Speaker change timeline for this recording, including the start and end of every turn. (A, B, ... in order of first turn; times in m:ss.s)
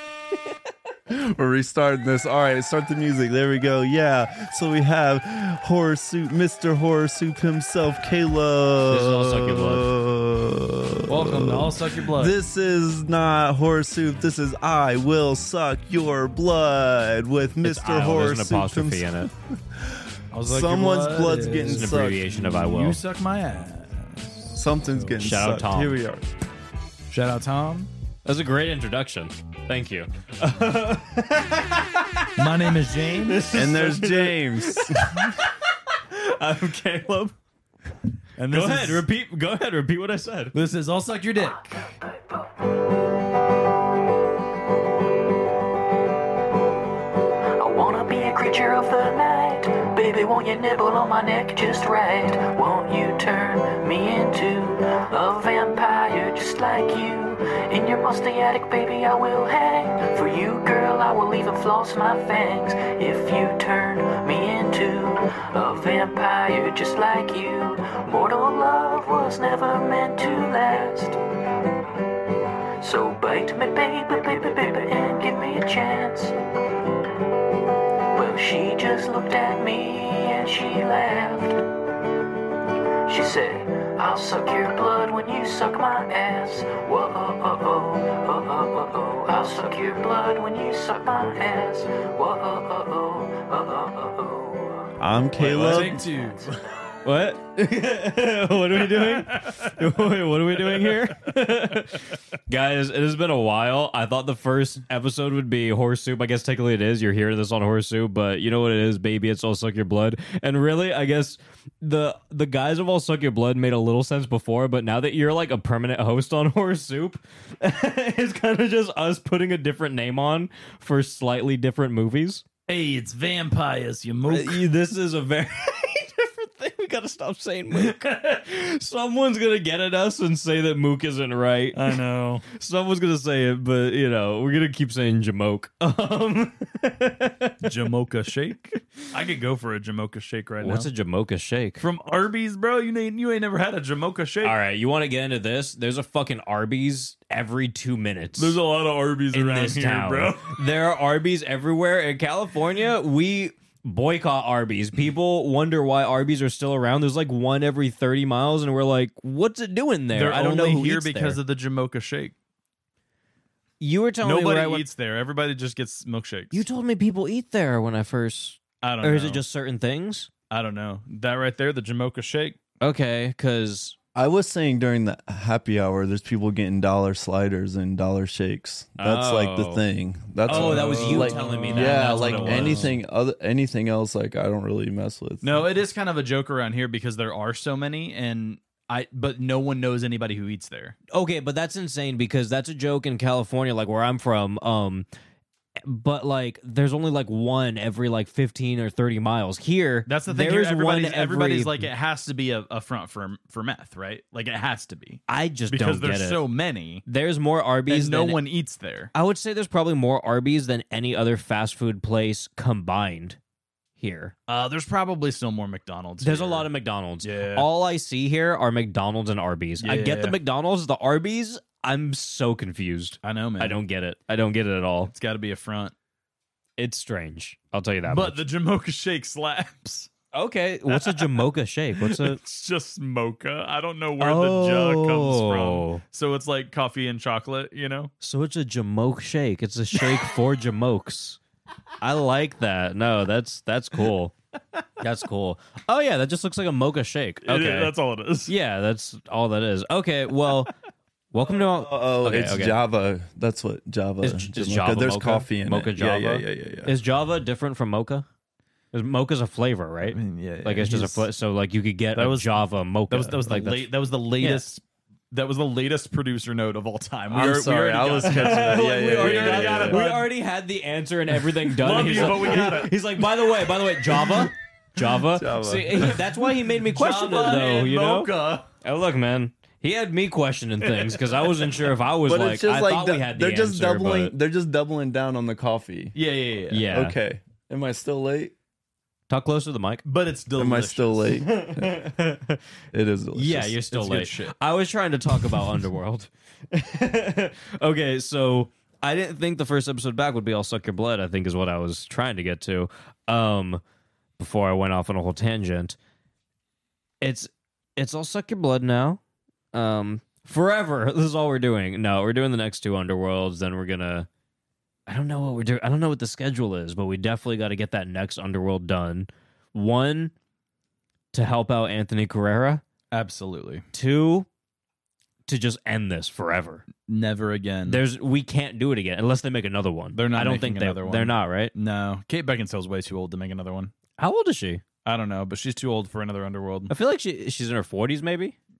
0:01.1-0:22.3 A
0:08.9-0:09.9 B
0:11.1-0:12.4 C
0:17.6-0:19.3 B
0:20.3-0:25.1 C
0:21.7-0:23.0 B
0:24.5-0:26.2 A
0:25.2-0:26.0 B
0:27.1-0:27.9 C
0:28.2-0:32.4 B
0:32.4-0:33.5 C
0:33.0-0:37.3 B
0:33.5-0:35.3 A
0:38.4-0:39.0 C
0:38.5-0:40.6 B
0:40.5-0:41.7 C
0:47.6-1:11.2 D
1:12.8-1:16.3 D
1:18.1-1:21.6 D
1:23.0-1:34.9 D
1:35.0-1:36.1 A
1:35.4-1:36.6 C
1:37.0-2:02.4 B
1:38.8-1:39.9 C
1:40.5-1:41.0 C
2:02.7-2:04.6 C
2:04.3-2:12.0 B
2:11.7-2:12.5 C
2:12.5-2:17.7 B
2:17.6-2:20.9 C
2:20.6-2:21.8 B
2:21.8-2:24.6 C
2:24.4-2:28.6 B
2:28.4-2:30.6 C
2:29.3-2:41.4 B
2:40.1-2:42.3 C
2:43.8-2:44.8 B
2:44.2-2:46.6 C
2:46.5-2:50.3 B
2:48.8-2:49.4 C
2:50.5-2:52.6 C
2:52.8-2:54.0 B
2:54.1-3:05.7 A
2:59.0-2:59.8 B
3:00.4-3:02.9 B
3:00.4-3:03.0 C
3:05.4-3:11.0 C
3:11.1-3:15.1 B
3:15.8-3:21.9 B
3:20.1-3:27.0 C
3:25.3-3:26.4 B
3:27.0-3:28.4 B
3:27.9-3:29.1 C
3:29.1-3:33.4 B
3:34.0-3:34.3 B
3:34.5-3:36.7 C
3:36.2-3:45.1 B
3:37.2-3:37.7 C
3:39.8-3:40.4 C
3:43.2-3:43.8 C
3:45.0-3:45.9 C
3:46.8-3:48.4 B
3:48.1-3:50.1 C
3:50.3-3:52.4 B
3:50.9-3:51.4 C
3:52.0-3:58.1 C
3:54.2-3:56.0 B
3:58.2-4:01.4 B
4:02.0-4:04.3 B
4:05.0-4:07.9 B
4:07.4-4:08.5 C
4:08.5-4:10.7 B
4:11.3-4:12.8 B
4:11.6-4:16.9 A
4:14.2-4:18.2 B
4:18.9-4:24.6 B
4:20.0-4:21.3 C
4:22.1-4:30.3 C
4:27.3-4:30.0 A
4:28.2-4:44.3 B
4:31.7-4:33.0 C
4:35.3-4:36.3 A
4:36.9-4:38.7 C
4:40.8-4:41.9 C
4:42.3-4:46.1 A
4:46.1-4:46.9 C
4:46.7-4:47.2 B
4:46.9-4:48.5 A
4:49.3-4:50.0 B
4:50.0-4:51.3 C
4:50.6-4:52.0 A
4:51.4-4:52.6 B
4:52.9-4:53.8 A
4:53.3-5:03.8 B
4:53.9-4:54.6 C
5:04.4-5:06.0 B
5:07.2-5:09.2 B
5:09.7-5:14.3 B
5:15.1-5:20.3 B
5:21.3-5:22.8 B
5:23.1-5:23.8 C
5:23.9-5:24.5 B
5:25.5-5:26.8 B
5:27.0-5:28.0 C
5:27.8-5:31.7 B
5:30.1-5:33.9 C
5:34.2-5:34.8 B
5:35.0-5:36.9 C
5:36.9-5:38.6 B